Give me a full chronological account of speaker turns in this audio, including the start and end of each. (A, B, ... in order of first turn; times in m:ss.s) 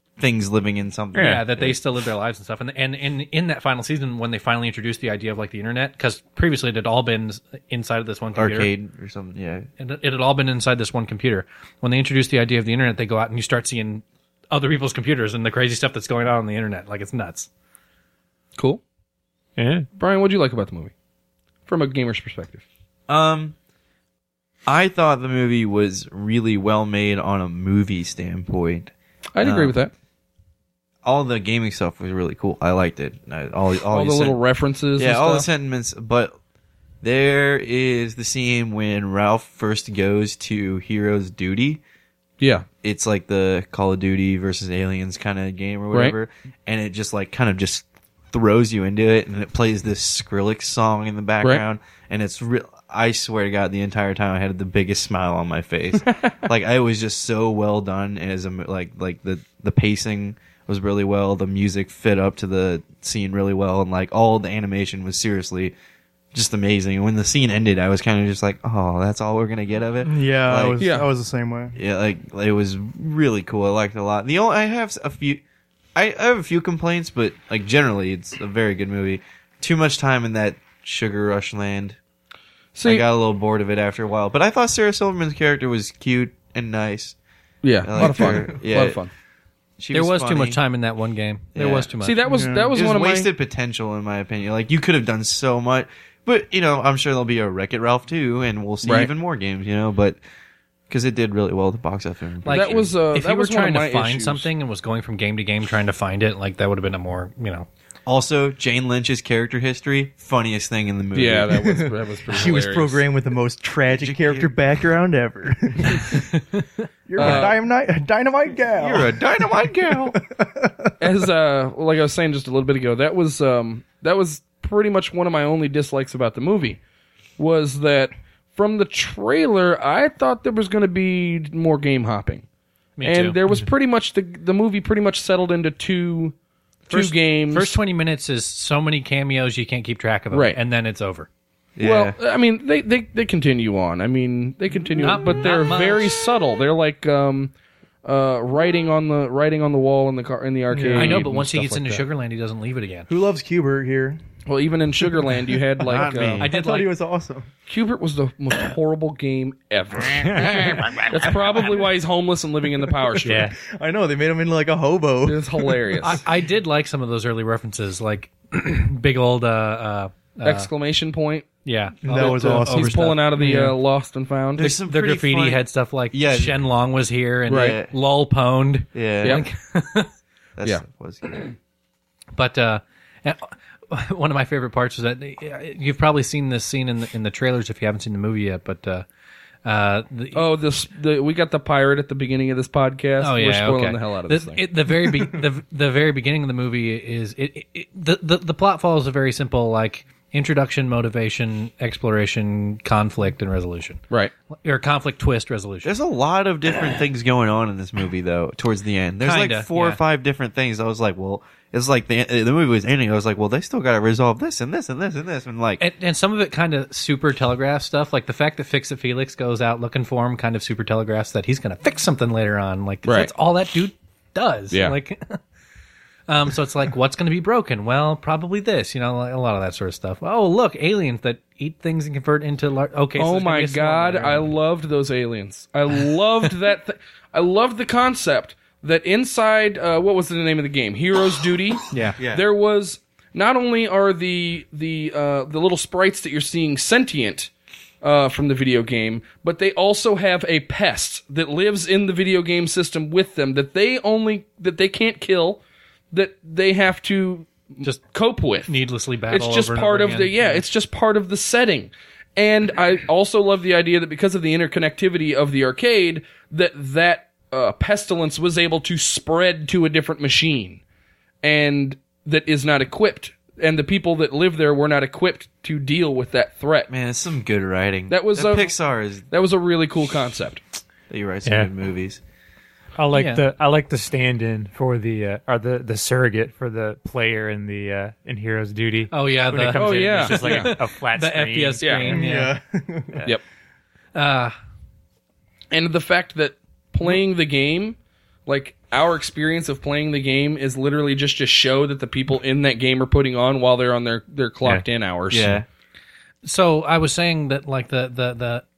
0:00.2-0:01.8 A
0:01.1-0:08.7 B
0:08.4-0:09.7 A
0:09.8-0:17.5 B
0:18.6-0:18.8 C
0:19.6-0:19.9 D
0:20.0-0:20.9 C
0:21.7-0:22.6 C
0:23.1-0:23.5 A
0:24.6-0:29.7 A
0:29.3-0:29.9 C
0:31.0-0:34.4 A
0:33.9-0:35.5 C
0:35.0-0:36.3 A
0:37.0-0:41.8 A
0:42.4-0:42.7 C
0:42.8-1:05.7 A
0:45.9-0:46.2 C
1:06.3-1:10.8 A
1:10.0-1:11.8 E
1:10.8-1:11.1 C
1:11.7-1:15.4 A
1:15.9-1:22.0 A
1:22.7-1:23.0 C
1:22.8-1:27.2 A
1:27.6-1:29.1 C
1:27.8-1:29.0 A
1:28.0-1:28.3 E
1:29.8-1:30.6 A
1:29.9-1:32.2 B
1:31.5-1:31.9 A
1:32.0-1:33.3 C
1:32.3-1:32.7 E
1:32.7-1:40.2 A
1:38.8-1:39.1 C
1:40.9-1:42.9 A
1:42.4-1:47.7 B
1:42.5-1:44.5 C
1:48.0-1:51.6 A
1:51.1-1:53.0 C
1:51.6-1:56.3 E
1:53.9-1:54.5 A
1:57.1-1:59.2 E
1:57.2-1:57.6 C
1:57.2-1:57.5 A
1:58.8-2:00.2 A
1:59.9-2:00.9 E
2:01.0-2:06.8 C
2:07.4-2:12.4 C
2:13.0-2:13.4 B
2:13.0-2:16.4 C
2:16.9-2:17.8 C
2:16.9-2:21.3 B
2:20.3-2:20.6 C
2:21.8-2:22.2 A
2:21.8-2:27.5 C
2:25.0-2:26.1 B
2:28.0-2:32.0 C
2:30.7-2:31.3 E
2:31.0-2:33.1 B
2:33.1-2:34.2 E
2:34.4-2:36.5 C
2:35.9-2:36.5 A
2:36.0-2:37.5 E
2:36.4-2:36.9 B
2:37.7-2:43.5 C
2:40.2-2:41.1 D
2:43.2-2:43.5 D
2:43.3-2:46.1 E
2:45.2-2:46.2 C
2:46.0-2:50.7 B
2:50.4-2:51.5 C
2:51.6-2:53.5 B
2:52.0-2:53.7 E
2:52.0-2:54.8 C
2:54.6-2:56.6 A
2:54.7-3:00.1 B
2:57.5-2:57.8 C
2:57.5-2:57.9 A
2:58.9-2:59.4 A
3:00.6-3:01.5 A
3:02.4-3:09.0 B
3:09.6-3:10.5 B
3:10.3-3:14.6 C
3:13.2-3:24.0 B
3:24.6-3:25.9 B
3:25.8-3:35.8 A
3:29.2-3:30.0 B
3:35.8-3:45.4 B
3:43.0-3:43.3 C
3:44.7-3:45.0 C
3:46.3-3:54.5 B
3:53.2-4:07.5 C
4:01.9-4:02.2 B
4:02.2-4:02.4 A
4:08.0-4:18.8 C
4:18.6-4:20.6 B
4:19.3-4:30.8 C
4:31.4-4:36.9 C
4:36.9-4:39.2 A
4:38.1-4:38.7 C
4:39.3-4:40.6 C
4:41.1-4:42.2 A
4:41.4-4:41.7 D
4:43.0-4:52.1 D
4:43.1-4:43.4 B
4:49.1-4:52.5 B
4:49.7-4:50.7 C
4:51.8-4:52.2 C
4:52.0-4:53.2 E
4:54.1-4:54.5 B
4:55.7-5:05.6 C
5:05.3-5:05.6 A
5:06.4-5:08.6 B